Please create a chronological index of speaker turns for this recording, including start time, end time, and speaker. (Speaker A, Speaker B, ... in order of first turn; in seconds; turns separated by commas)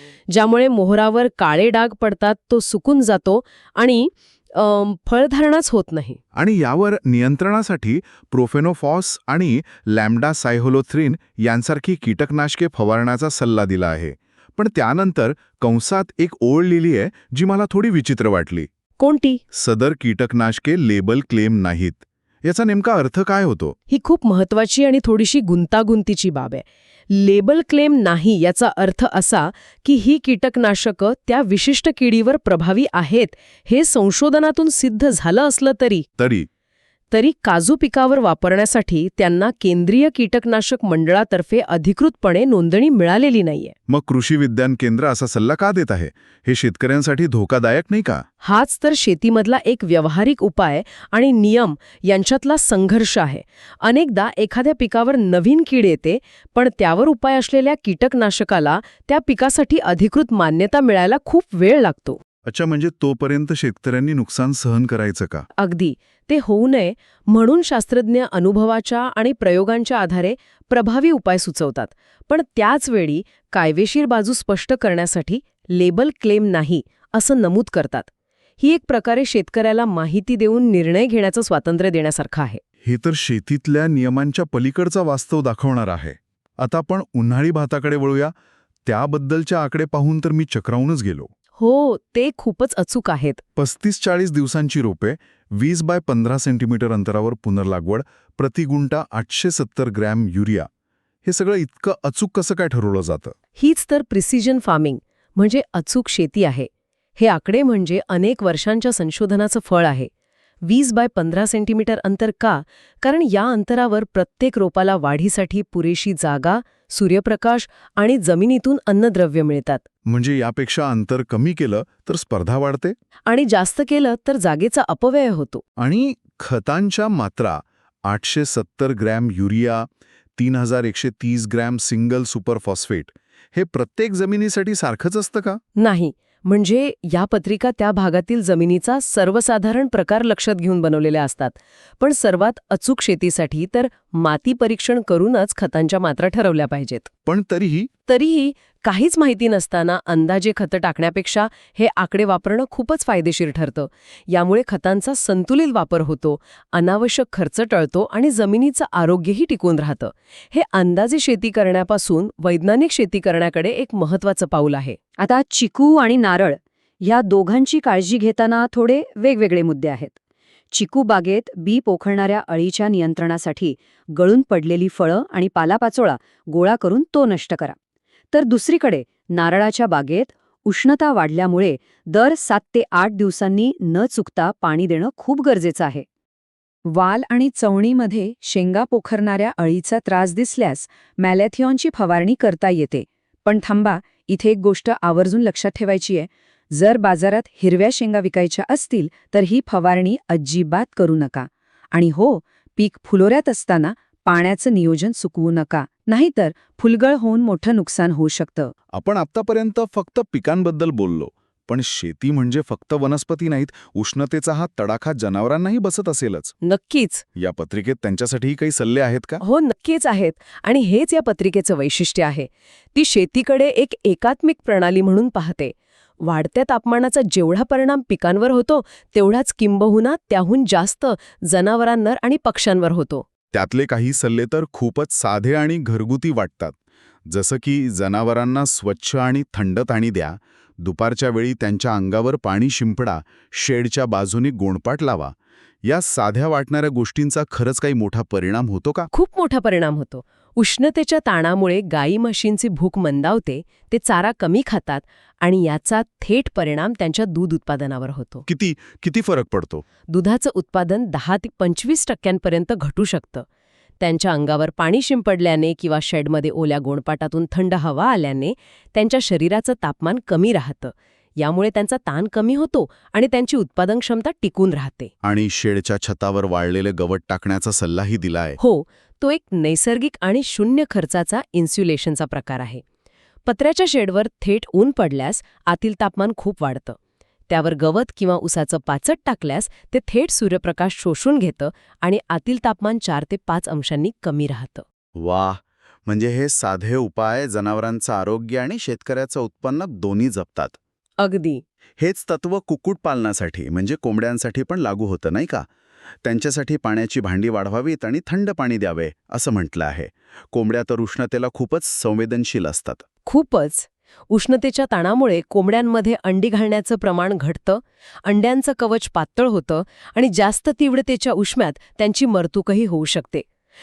Speaker A: 0.3-6.2, Speaker B: 6.3-18.7, Speaker A: 19.0-19.4, Speaker B: 19.5-23.8, Speaker A: 23.9-36.1, Speaker B: 36.2-36.5, Speaker A: 37.1-43.7, Speaker B: 43.9-48.2, Speaker A: 48.4-62.2, Speaker B: 62.5-65.5, Speaker A: 65.6-78.1, Speaker A: 78.6-82.6, Speaker B: 82.8-88.3, Speaker B: 88.8-91.3, Speaker A: 91.6-93.4, Speaker B: 93.6-100.7, Speaker B: 101.2-103.3, Speaker A: 103.6-110.1, Speaker A: 110.7-119.8, Speaker B: 120.1-123.0, Speaker A: 123.3-125.6, Speaker B: 125.8-135.6, Speaker A: 135.8-147.1, Speaker B: 147.2-147.9, Speaker A: 148.1-165.0, Speaker C: 165.2-170.1, Speaker C: 170.7-177.8, Speaker C: 178.3-186.1, Speaker C: 186.9-208.7, Speaker B: 208.9-216.5, Speaker A: 216.6-217.2, Speaker B: 217.4-219.4, Speaker A: 219.4-233.2, Speaker B: 233.5-236.8, Speaker B: 237.3-249.1, Speaker A: 249.1-258.4, Speaker B: 258.5-259.8, Speaker A: 260.1-263.5, Speaker A: 264.0-275.1, Speaker B: 275.2-278.6, Speaker A: 278.6-282.8, Speaker A: 283.4-287.0, Speaker A: 287.5-294.8, Speaker B: 295.2-300.8, Speaker A: 301.2-301.6, Speaker B: 302.0-305.7, Speaker B: 306.2-313.0, Speaker A: 313.3-323.5